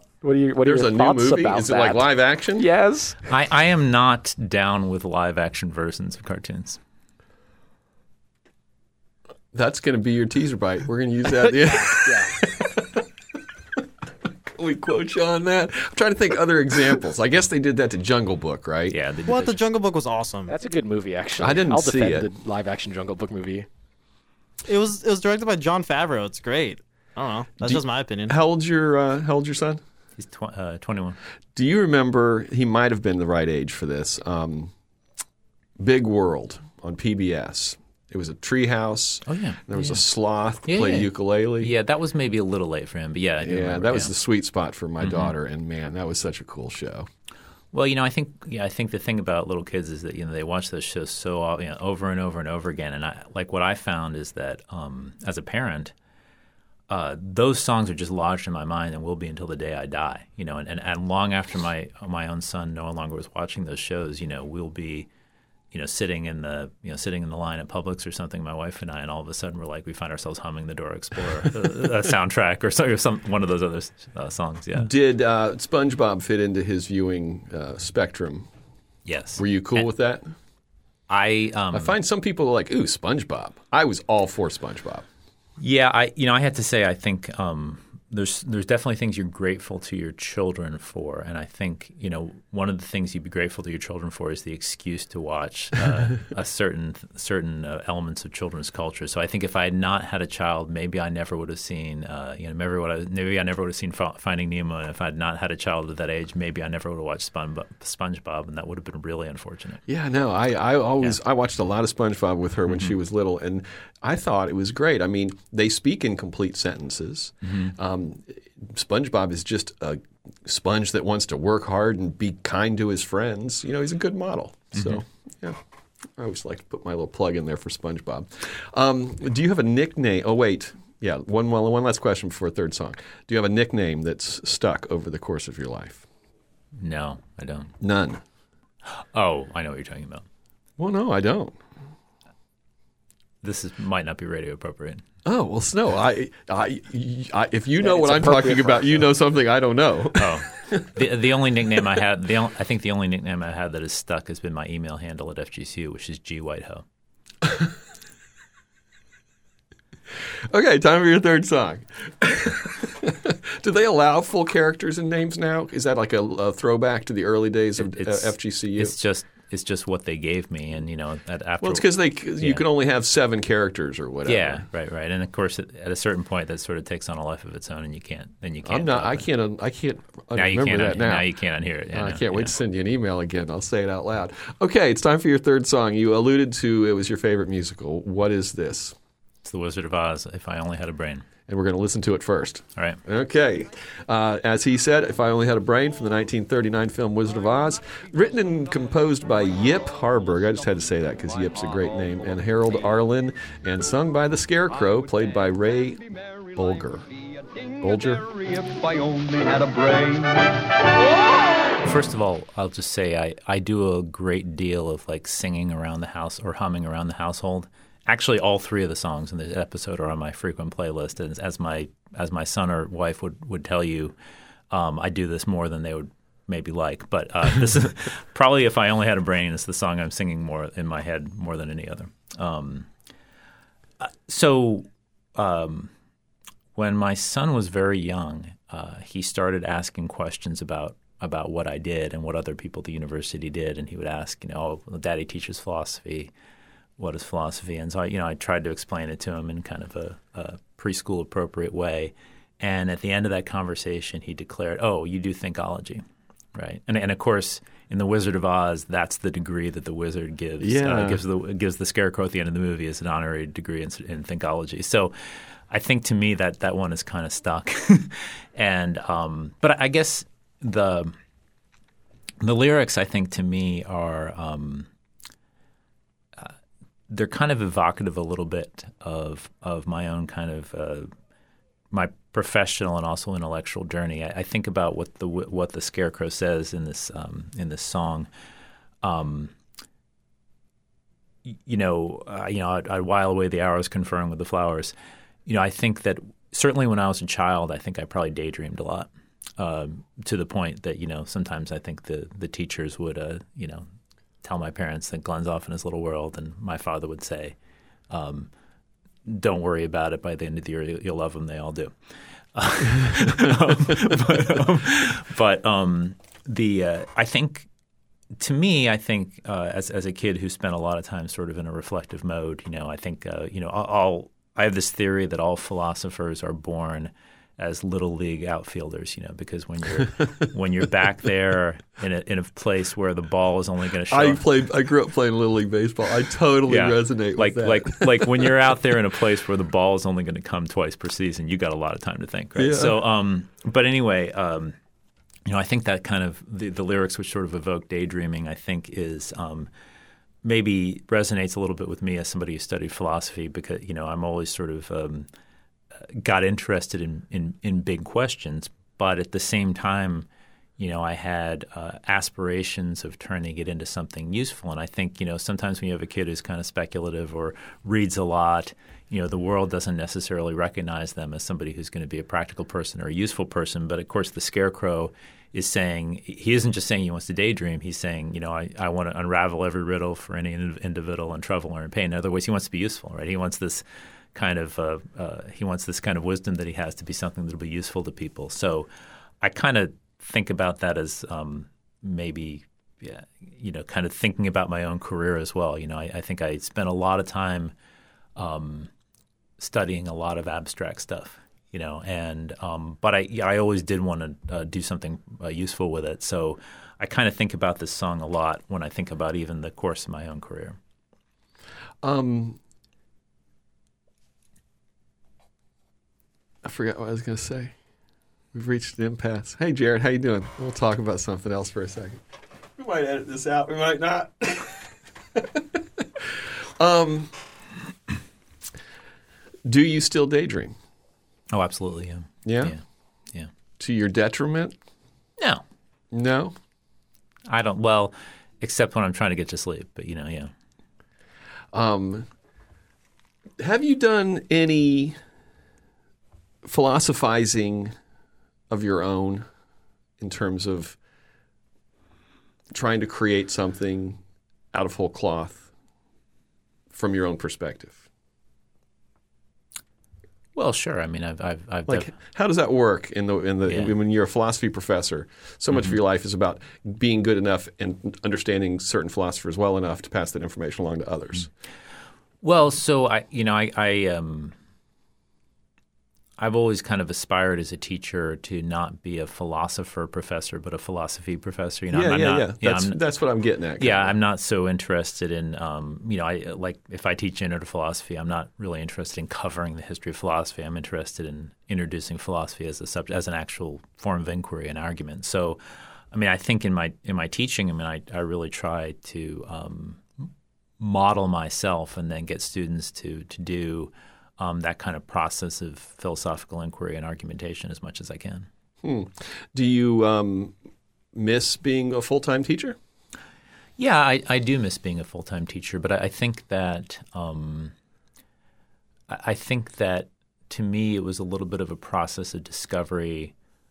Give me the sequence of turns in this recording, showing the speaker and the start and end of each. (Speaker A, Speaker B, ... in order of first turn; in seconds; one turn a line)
Speaker A: 0.2-3.2
Speaker B: 0.6-2.7
Speaker C: 3.3-6.8
Speaker B: 9.5-13.0
Speaker A: 11.5-12.3
Speaker B: 14.5-19.0
Speaker C: 18.9-19.6
Speaker D: 19.3-20.6
Speaker A: 20.5-23.7
Speaker B: 21.4-22.3
Speaker D: 24.6-28.4
Speaker B: 27.6-29.8
Speaker C: 30.2-31.2
Speaker B: 31.6-34.7
Speaker B: 35.8-41.7
Speaker C: 39.3-40.0
Speaker C: 40.6-44.2
Speaker B: 43.4-47.1
Speaker C: 45.0-45.3
Speaker C: 47.7-55.9
Speaker C: 56.9-65.1
Speaker C: 65.7-74.9
Speaker B: 74.8-78.5
Speaker C: 79.1-79.9
Speaker B: 79.4-80.3
Speaker C: 81.1-82.0
Speaker B: 81.7-85.0
Speaker C: 85.6-109.8
Speaker B: 109.9-125.6
Speaker C: 117.4-117.7
Speaker C: 124.7-125.0
Speaker B: 126.1-136.1
Speaker C: 136.8-137.7
Speaker B: 137.8-138.2
Speaker C: 138.8-140.2
Speaker B: 140.8-141.6
Speaker C: 143.4-145.0
Speaker B: 145.2-150.9
Speaker A: 147.8-148.8
Speaker C: 150.2-156.8
Speaker B: 157.4-157.7
Speaker B: 160.3-168.9
Speaker C: 167.8-172.7
Speaker B: 171.6-174.7
Speaker C: 174.3-179.3
Speaker B: 178.7-181.3
Speaker C: 180.3-182.5
Speaker B: 181.9-189.0
Speaker C: 189.4-191.3
Speaker B: 191.5-206.0
Speaker E: 200.3-202.5
Speaker E: 204.7-211.4
Speaker B: 206.6-207.1
Speaker B: 207.8-208.3
Speaker C: 211.8-224.2
Speaker C: 224.7-232.9
Speaker C: 234.0-235.9
Speaker C: 236.8-246.3
Speaker C: 247.0-256.0
Speaker C: 256.6-271.2
Speaker B: 260.6-261.2
Speaker C: 272.4-274.9
Speaker C: 277.1-281.1
Speaker C: 281.9-288.3
Speaker C: 289.0-289.5
Speaker C: 291.5-294.9
Speaker C: 295.5-303.9
Speaker C: 304.4-307.6
Speaker C: 308.1-308.5
Speaker C: 309.3-311.9
Speaker C: 312.5-317.7
Speaker C: 318.4-334.4
Speaker B: 334.1-338.7
Speaker C: 336.7-344.8
Speaker B: 342.6-343.0
Speaker C: 345.5-349.7
Speaker C: 350.4-355.3
Speaker C: 356.0-360.3
Speaker C: 360.8-383.8
Speaker C: 384.4-388.9
Speaker C: 389.4-397.7
Speaker C: 398.4-398.9
Speaker C: 399.6-410.8
Speaker B: 412.0-412.6
Speaker B: 416.6-417.8
Speaker B: 418.5-422.2
Speaker B: 422.8-427.3
Speaker B: 429.6-430.8
Speaker C: 431.5-432.8
Speaker B: 432.4-432.8
Speaker B: 433.8-434.8
Speaker C: 435.4-435.6
Speaker B: 436.1-436.6
Speaker C: 437.5-440.5
Speaker B: 441.7-442.3
Speaker B: 443.6-445.2
Speaker B: 446.6-447.9
Speaker B: 448.7-449.5
Speaker B: 450.2-451.0
Speaker B: 452.7-454.2
Speaker B: 454.7-455.7
Speaker B: 456.9-458.0
Speaker C: 460.6-462.1
Speaker B: 461.9-471.5
Speaker C: 463.7-463.9
Speaker C: 472.4-474.5
Speaker C: 476.4-483.0
Speaker B: 481.9-484.2
Speaker C: 483.8-500.3
Speaker C: 500.8-508.5
Speaker B: 508.8-510.5
Speaker B: 511.1-512.8
Speaker C: 513.8-517.7
Speaker C: 519.1-523.3